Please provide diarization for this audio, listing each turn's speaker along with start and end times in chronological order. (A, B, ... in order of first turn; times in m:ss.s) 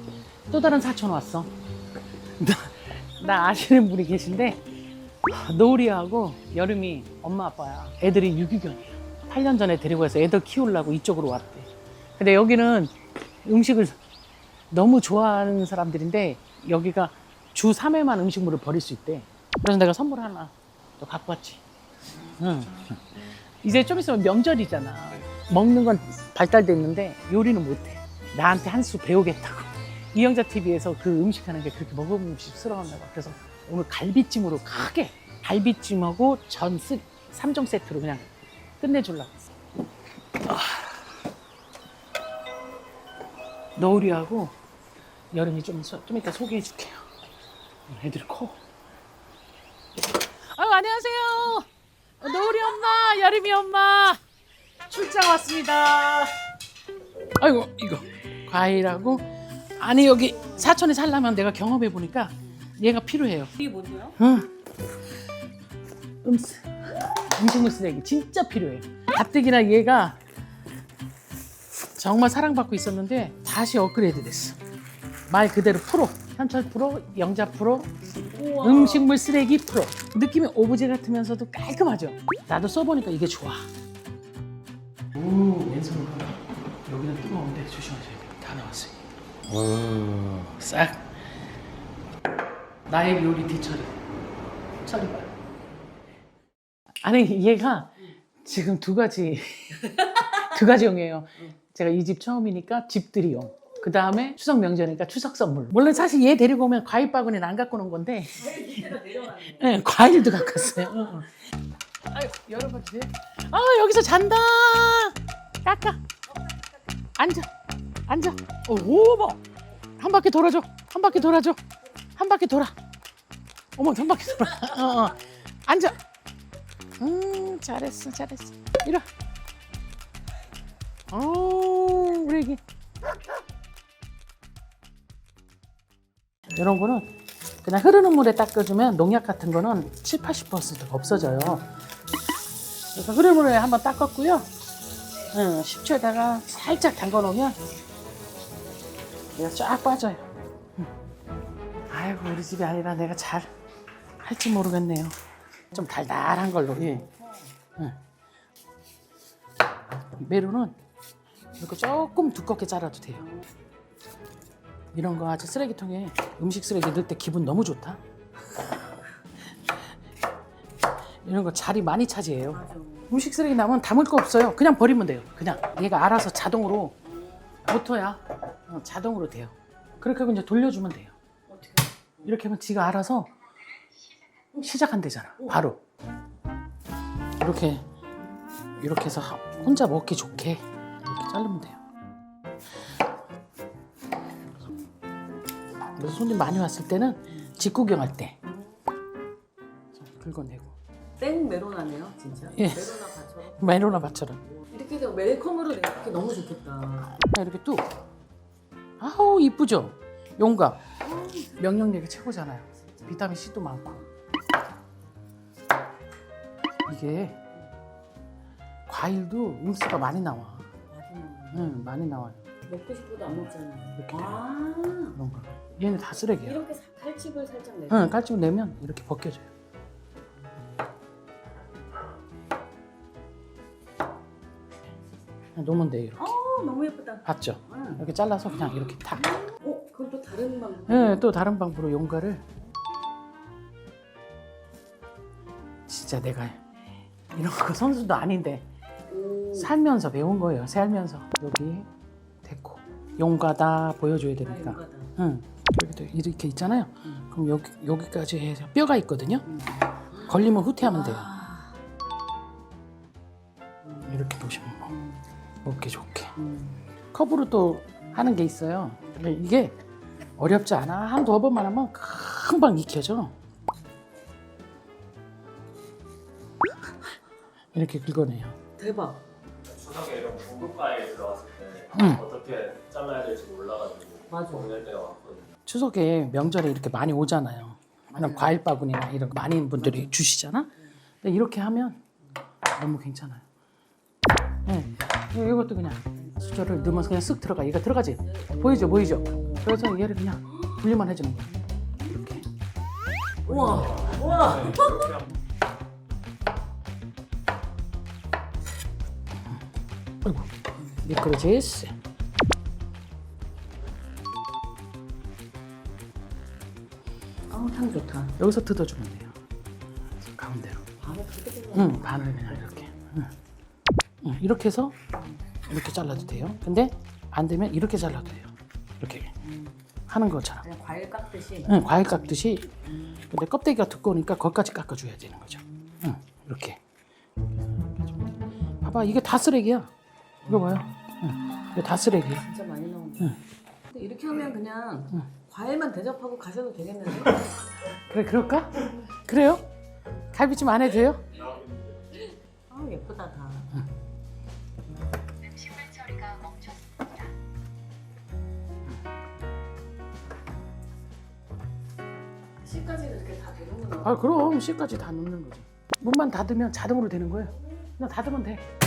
0:00.5-0:01.5 A
0:02.4-0:04.6 A
0:05.3-0:14.0 A
0:14.7-0:21.6 A
0:22.4-0:38.3 A
0:38.8-0:39.4 A
0:40.4-0:41.0 A
0:43.8-0:44.6 A
0:45.3-0:47.1 A
0:47.9-0:48.6 A
0:50.5-0:51.7 A
0:52.2-0:54.2 A
0:54.9-0:56.4 A
0:57.4-1:03.5 A
1:00.4-1:00.7 B
1:03.6-1:04.2 B
1:04.2-1:04.5 A
1:06.2-1:10.2 A
1:12.0-1:14.6 A
1:15.3-1:17.9 A
1:18.2-1:19.1 B
1:18.6-1:23.7 A
1:25.1-1:31.3 A
1:32.9-1:34.0 A
1:34.8-1:35.3 A
1:37.0-1:48.8 A
1:48.4-1:49.8 B
1:49.4-1:51.5 A
1:52.1-1:56.0 A
1:57.2-1:57.5 A
1:58.1-1:59.4 A
2:00.0-2:01.6 A
2:02.2-2:02.8 A
2:03.8-2:06.0 A
2:07.0-2:09.1 A
2:11.1-2:12.6 A
2:16.5-2:17.1 A
2:17.6-2:21.7 A
2:22.9-2:24.5 A
2:25.3-2:27.6 A
2:29.4-2:30.9 A
2:31.9-2:33.5 A
2:34.2-2:35.2 A
2:35.7-2:37.1 A
2:37.0-2:37.5 B
2:40.2-2:40.8 A
2:41.6-2:43.2 A
2:43.2-2:43.5 B
2:44.9-2:48.0 A
2:51.2-2:57.0 A
2:52.5-2:53.2 B
2:57.0-2:57.6 B
2:57.7-3:01.1 A
3:01.5-3:02.4 B
3:02.2-3:03.3 A
3:04.6-3:05.8 A
3:07.4-3:07.9 A
3:08.8-3:11.8 A
3:16.0-3:18.3 A
3:20.0-3:20.8 A
3:21.2-3:27.2 B
3:22.6-3:22.9 A
3:23.6-3:24.4 A
3:27.2-3:27.9 A
3:29.0-3:30.8 A
3:31.0-3:31.6 B
3:31.6-3:34.0 A
3:36.9-3:37.4 A
3:38.9-3:40.7 A
3:40.9-3:41.7 B
3:41.5-3:42.4 A
3:42.6-3:45.2 B
3:44.0-3:44.4 A
3:45.2-3:46.6 A
3:46.4-3:48.2 B
3:47.9-3:49.5 A
3:55.6-3:56.4 A
3:56.2-4:01.2 B
3:57.3-3:59.3 A
4:00.9-4:02.4 A
4:05.9-4:06.7 A
4:07.3-4:08.7 A
4:09.1-4:09.7 B
4:09.6-4:11.9 A
4:12.4-4:19.5 A
4:14.4-4:15.1 B
4:19.5-4:21.8 B
4:20.3-4:21.3 A
4:23.8-4:24.2 B
4:24.1-4:24.9 A
4:24.8-4:25.2 B
4:25.6-4:26.3 A
4:26.4-4:26.8 B
4:27.1-4:29.8 A
4:30.4-4:33.4 A
4:37.7-4:38.6 A
4:38.8-4:39.2 B
4:39.7-4:45.5 C
4:41.9-4:42.2 A
4:44.3-4:44.7 B
4:45.7-4:50.7 A
4:48.1-4:48.6 B
4:49.8-4:50.1 B
4:51.2-4:52.0 A
4:52.8-4:53.4 A
4:54.7-5:01.5 A
4:56.2-4:57.2 B
4:58.2-4:59.7 B
5:00.5-5:00.8 B
5:01.6-5:02.2 B
5:02.1-5:02.4 A
5:03.4-5:05.2 B
5:03.5-5:04.0 A
5:03.9-5:05.3 C
5:10.2-5:10.5 A
5:11.0-5:11.9 A
5:17.5-5:18.4 B
5:18.4-5:19.4 A
5:20.2-5:20.8 A
5:21.0-5:22.9 B
5:21.7-5:23.3 A
5:24.2-5:25.0 A
5:25.7-5:29.3 A
5:29.4-5:29.8 B
5:30.1-5:30.6 A
5:30.6-5:32.3 B
5:31.7-5:32.8 A
5:32.9-5:33.2 B
5:33.3-5:36.8 A
5:35.6-5:36.0 B
5:37.8-5:39.9 A
5:40.4-5:40.8 B
5:40.5-5:42.4 A
5:41.3-5:47.5 B
5:47.9-5:49.7 A
5:50.3-5:51.2 A
5:51.3-5:51.9 C
5:52.1-5:53.7 B
5:55.5-5:57.1 B
6:02.6-6:04.2 B
6:04.0-6:08.6 A